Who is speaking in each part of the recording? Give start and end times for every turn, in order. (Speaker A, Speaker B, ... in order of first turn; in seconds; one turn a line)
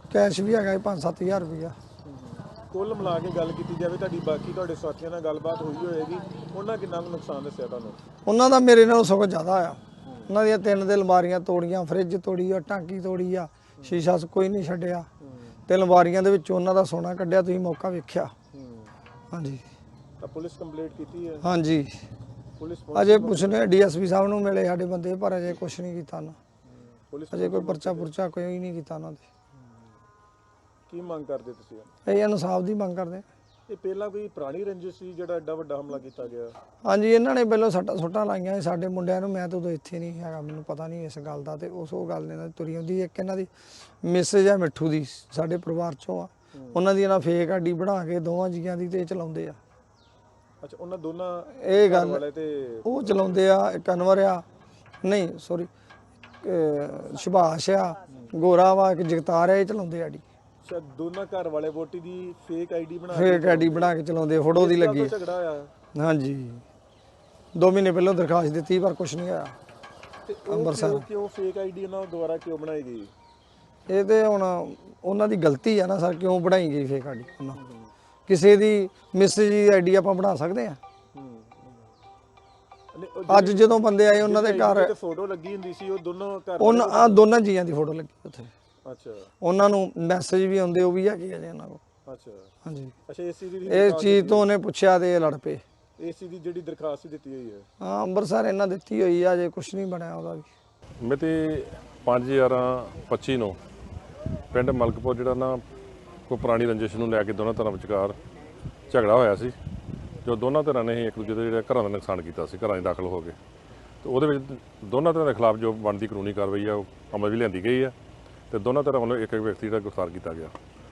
Speaker A: 0.1-1.8
Speaker B: 2.0-8.0
Speaker A: 8.2-15.1
Speaker B: 10.0-10.3
Speaker B: 13.8-14.1
Speaker B: 15.2-15.6
Speaker A: 15.7-18.3
Speaker B: 18.5-18.9
Speaker A: 19.3-19.6
Speaker B: 20.2-21.5
Speaker A: 21.4-22.0
Speaker B: 22.6-23.7
Speaker A: 22.9-26.4
Speaker B: 27.1-28.1
Speaker A: 27.3-29.2
Speaker B: 30.9-31.9
Speaker A: 32.0-33.2
Speaker B: 33.7-36.5
Speaker A: 36.8-43.5
Speaker A: 44.0-49.6
Speaker B: 46.5-46.8
Speaker B: 50.6-53.4
Speaker A: 51.6-52.2
Speaker A: 52.9-54.4
Speaker A: 55.0-55.7
Speaker A: 56.4-60.2
Speaker B: 60.6-64.0
Speaker A: 63.1-65.1
Speaker B: 64.5-65.7
Speaker A: 65.9-66.6
Speaker A: 67.5-69.5
Speaker B: 70.3-73.1
Speaker A: 70.5-71.0
Speaker A: 73.9-77.6
Speaker B: 77.5-77.9
Speaker A: 78.3-80.8
Speaker B: 81.1-81.8
Speaker B: 82.9-87.2
Speaker A: 83.3-84.9
Speaker A: 86.6-88.5
Speaker B: 88.8-89.3
Speaker A: 89.4-91.8
Speaker B: 92.1-92.5
Speaker A: 92.7-92.9
Speaker B: 93.1-94.5
Speaker A: 93.7-95.6
Speaker B: 96.0-97.7
Speaker A: 97.8-100.5
Speaker C: 101.0-103.6
Speaker C: 104.5-105.6
Speaker C: 106.3-108.2
Speaker C: 108.9-109.6
Speaker C: 110.2-113.4
Speaker C: 114.0-118.0
Speaker C: 118.5-120.5